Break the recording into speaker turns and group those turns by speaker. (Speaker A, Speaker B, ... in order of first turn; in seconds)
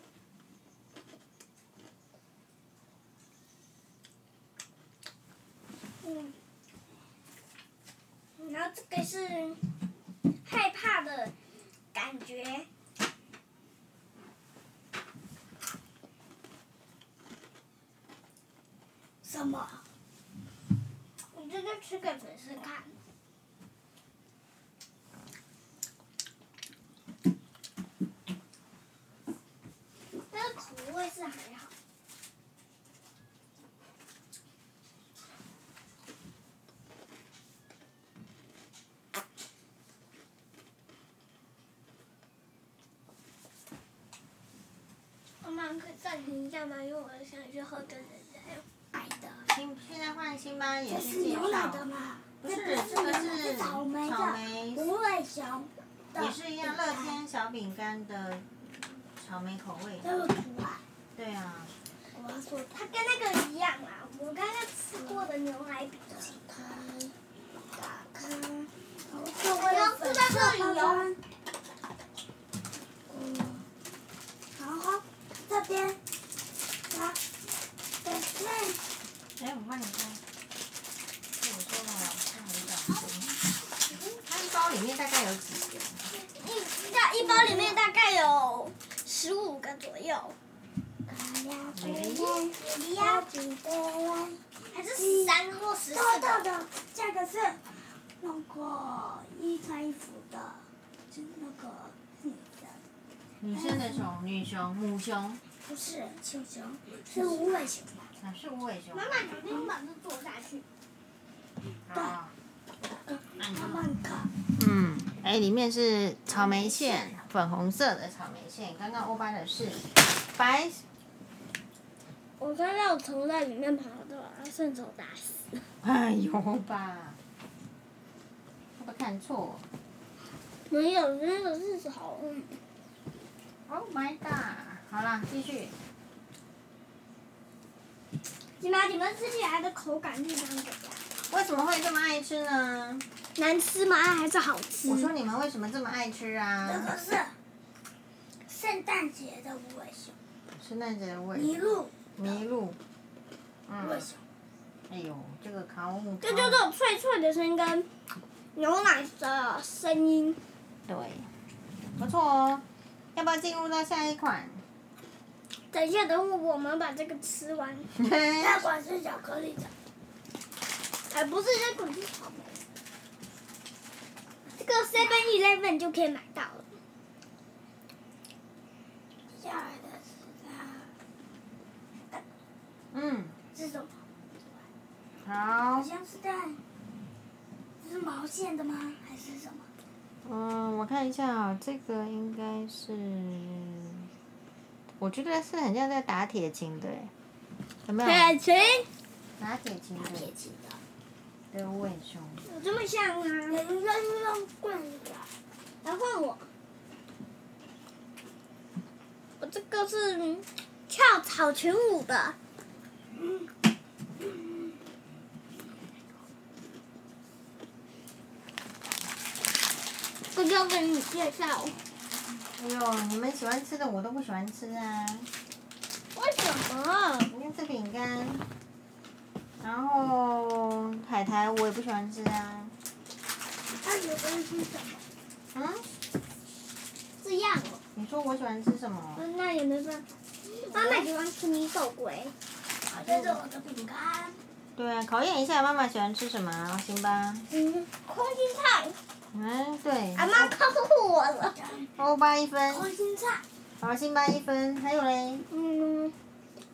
Speaker A: 6.0-6.3, 8.4-9.6, 10.4-11.3, 11.9-12.7, 21.3-22.9, 30.3-31.7, 45.4-48.6, 62.1-66.8, 67.9-68.7, 69.5-71.1, 86.4-90.4, 92.4-93.3, 94.7-96.4, 108.9-110.6, 122.4-125.6, 130.7-132.6, 138.6-141.0, 143.4-145.1, 156.2-157.9, 158.6-160.4, 165.7-167.9, 171.1-172.6, 174.5-176.7, 198.0-198.9, 200.3-200.8, 202.4-203.6, 205.8-206.5, 209.4-212.4, 220.3-221.8, 226.2-227.3, 237.2-237.8, 239.2-242.3, 247.5-249.0, 250.2-251.6, 255.5-256.1
Speaker B: 19.2-19.8, 48.9-49.4, 50.9-57.2, 60.0-60.8, 65.0-65.2, 66.3-67.1, 69.1-71.2, 73.1-73.6, 74.6-76.0, 76.9-77.2, 78.0-78.8, 87.1-87.8, 91.1-94.4, 95.0-95.3, 95.9-97.6, 98.2-102.8, 103.5-104.1, 105.7-108.1, 109.2-109.7, 113.1-114.3, 146.6-147.3, 148.5-150.2, 151.3-152.1, 153.8-154.2, 168.4-169.7, 179.3-180.9, 183.5-183.9, 185.8-186.6, 187.8-189.7, 200.2-200.5, 203.5-205.3, 233.8-235.0, 242.9-244.4, 251.6-251.9, 252.7-253.4
Speaker C: 49.5-51.9, 52.4-54.9, 56.1-58.5, 59.2-60.1, 61.1-61.7, 79.4-80.2, 81.4-83.3, 84.2-86.0, 91.7-92.4, 103.4-105.4, 108.2-109.2, 111.9-112.3, 113.4-114.0, 114.5-120.8, 125.8-127.2, 128.8-129.7, 133.7-135.7, 141.3-143.1, 144.9-146.9, 150.5-152.8, 153.7-154.1, 154.9-156.6, 160.9-161.3, 162.0-164.6, 168.0-168.6, 182.9-183.4, 185.2-185.9, 190.2-194.1, 195.0-197.1, 197.9-198.4, 199.4-200.3, 201.5-202.4, 222.5-225.3, 227.3-228.4, 229.6-232.7, 235.5-235.8, 237.9-239.2, 240.7-241.1, 243.0-243.4, 244.8-247.5, 249.3-250.5, 252.0-252.9, 253.8-255.4